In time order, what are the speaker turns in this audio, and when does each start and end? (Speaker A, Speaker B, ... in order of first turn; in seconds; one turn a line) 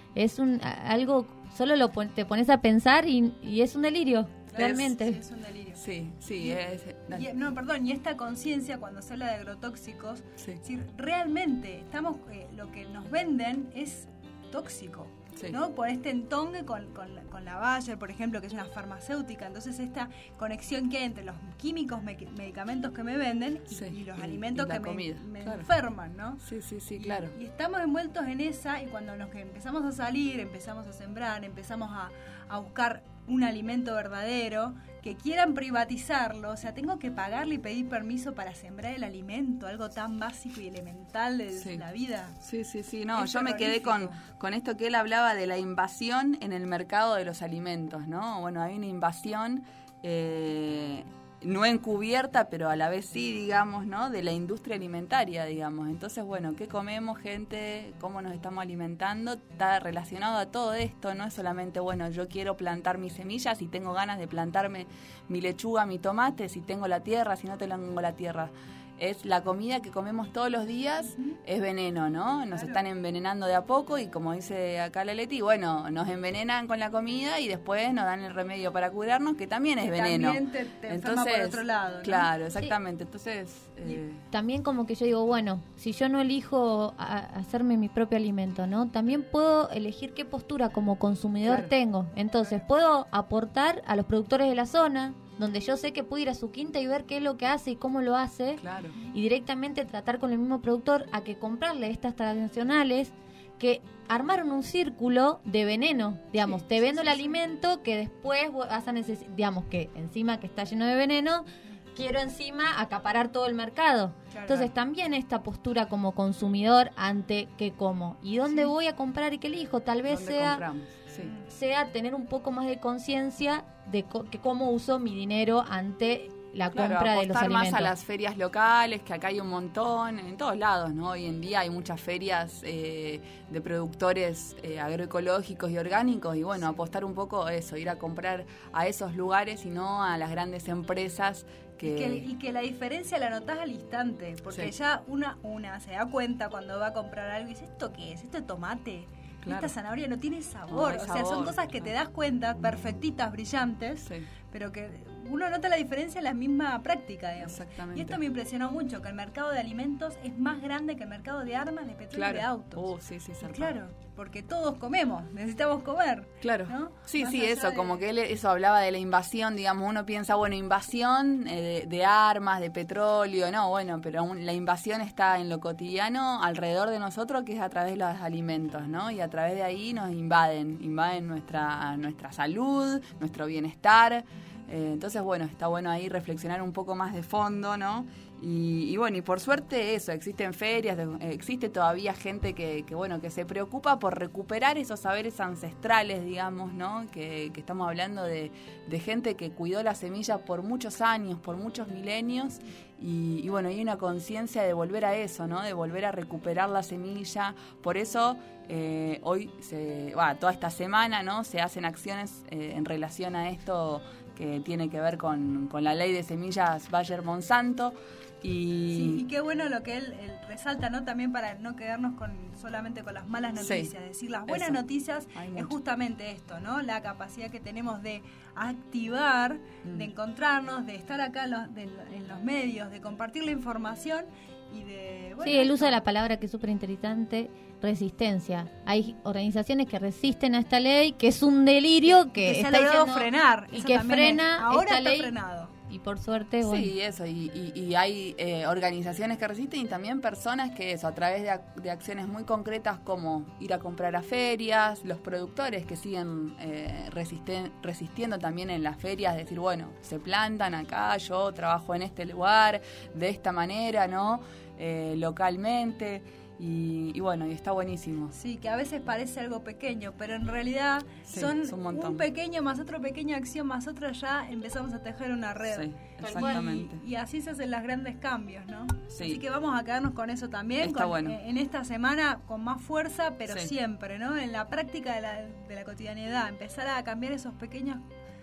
Speaker A: 0.1-5.2
Speaker B: 4.5-5.8
Speaker C: 4.5-4.9
Speaker C: 5.8-7.3
Speaker B: 7.1-26.4
Speaker C: 23.7-25.7
Speaker C: 26.4-27.4
Speaker B: 27.0-42.4
Speaker C: 41.5-41.8
Speaker C: 42.4-84.2
Speaker B: 43.1-44.2
Speaker B: 72.5-72.8
Speaker B: 79.8-82.3
Speaker A: 84.3-120.6
Speaker C: 91.4-91.7
Speaker C: 98.6-99.0
Speaker B: 106.8-107.4
Speaker B: 114.3-114.7
Speaker B: 118.5-118.7
Speaker C: 120.1-121.3
Speaker A: 121.5-127.9
Speaker C: 126.7-142.2
Speaker B: 141.8-168.0
Speaker C: 149.4-149.7
Speaker C: 150.7-151.9
Speaker C: 154.0-154.3
Speaker C: 157.4-158.2
Speaker C: 162.1-163.8
Speaker C: 166.4-219.2
Speaker B: 218.9-236.0
Speaker C: 223.6-223.9
Speaker C: 224.5-225.8
Speaker C: 229.8-230.1
Speaker A: 235.4-246.9
Speaker B: 242.1-245.7
Speaker C: 246.6-268.4
Speaker B: 268.4-288.0
Speaker C: 271.3-272.2
Speaker C: 275.7-277.0
Speaker C: 279.1-279.4
Speaker C: 280.8-281.4